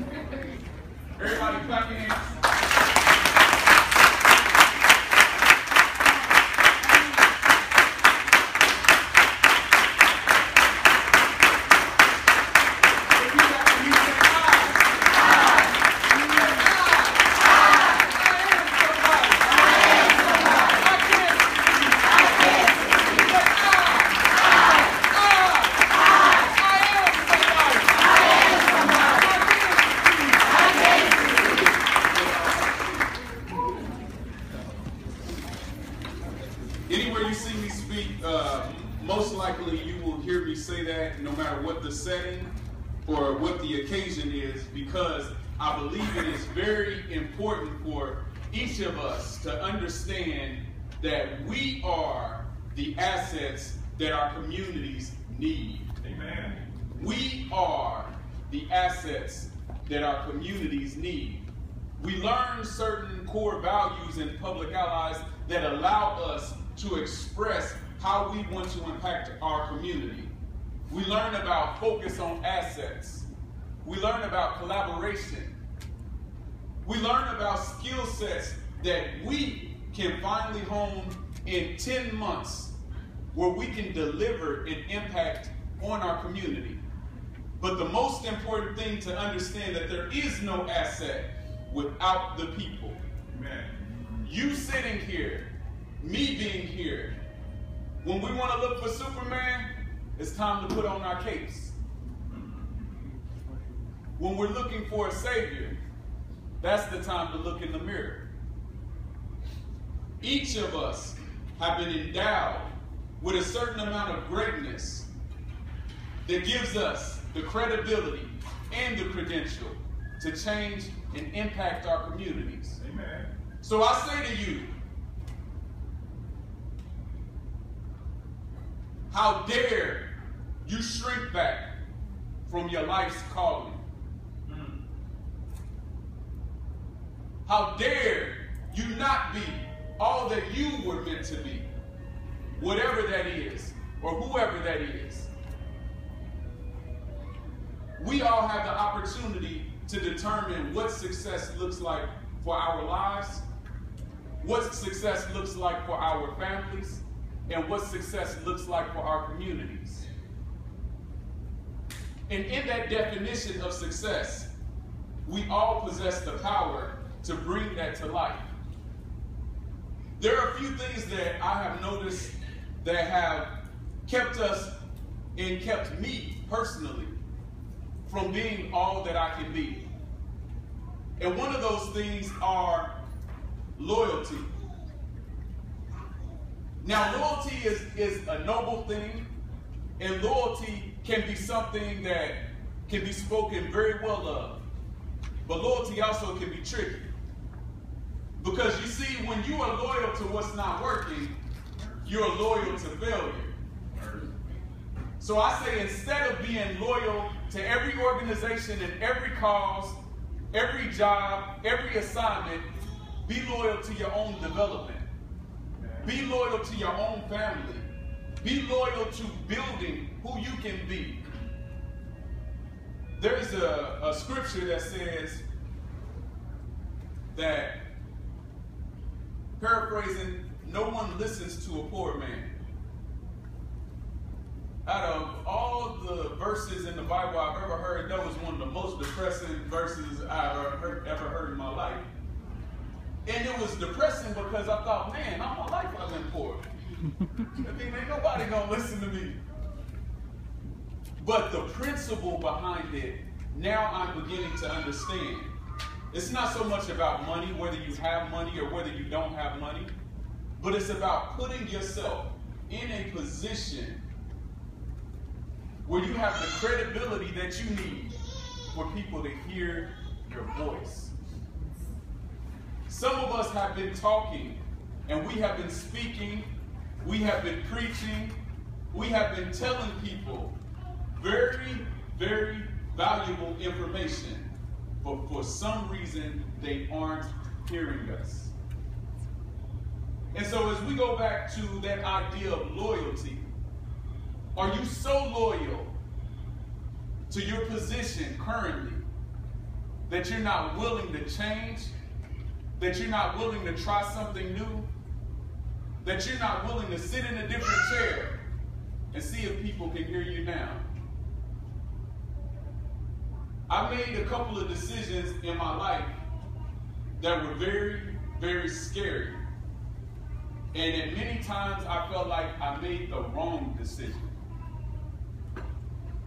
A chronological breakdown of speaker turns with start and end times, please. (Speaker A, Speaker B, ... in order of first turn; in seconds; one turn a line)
Speaker A: 1.2-2.2
Speaker A: 13.2-14.9
Speaker A: 16.3-17.2
Speaker A: 18.0-19.8
Speaker A: 20.6-22.3
Speaker A: 23.1-24.2
Speaker A: 25.0-25.9
Speaker A: 26.4-30.7
Speaker A: 36.9-42.5
Speaker A: 43.0-55.9
Speaker B: 56.0-56.6
Speaker A: 57.0-70.3
Speaker A: 70.9-73.3
Speaker A: 73.8-75.6
Speaker A: 76.8-82.8
Speaker A: 83.3-86.8
Speaker A: 87.6-93.0
Speaker B: 93.3-93.8
Speaker A: 94.2-97.2
Speaker A: 98.0-101.8
Speaker A: 104.2-105.8
Speaker A: 106.6-108.3
Speaker A: 110.2-115.1
Speaker A: 116.2-122.8
Speaker B: 122.8-123.3
Speaker A: 123.6-124.7
Speaker A: 129.1-131.8
Speaker A: 132.5-133.8
Speaker B: 134.5-134.8
Speaker A: 137.5-141.7
Speaker A: 142.6-145.3
Speaker A: 148.0-153.5
Speaker A: 154.4-160.1
Speaker A: 162.3-164.5
Speaker A: 165.2-168.5
Speaker A: 170.2-174.8
Speaker A: 175.3-177.2
Speaker A: 178.1-179.9
Speaker A: 181.2-183.0
Speaker A: 183.8-184.5
Speaker A: 186.8-189.3
Speaker A: 190.0-194.7
Speaker A: 195.4-197.1
Speaker A: 198.4-201.4
Speaker A: 202.0-203.5
Speaker B: 203.9-204.3
Speaker A: 205.2-210.0
Speaker A: 210.5-212.7
Speaker A: 213.2-215.1
Speaker B: 215.8-216.1
Speaker A: 216.0-217.9
Speaker A: 218.4-221.2
Speaker A: 223.2-225.4
Speaker A: 227.3-227.8
Speaker A: 229.6-232.5
Speaker A: 234.8-242.1
Speaker A: 243.3-246.7
Speaker A: 247.5-249.4
Speaker A: 251.2-255.5
Speaker A: 256.1-259.9
Speaker A: 260.6-264.0
Speaker A: 265.8-271.1
Speaker A: 272.9-276.5
Speaker A: 277.0-278.4
Speaker A: 278.9-280.6
Speaker A: 281.2-288.5
Speaker A: 290.3-293.5
Speaker A: 294.6-296.0
Speaker A: 297.3-299.1
Speaker A: 300.1-301.9
Speaker A: 302.8-304.9
Speaker A: 306.0-308.4
Speaker A: 309.1-310.9
Speaker A: 313.7-316.2
Speaker A: 317.2-319.5
Speaker A: 320.7-324.4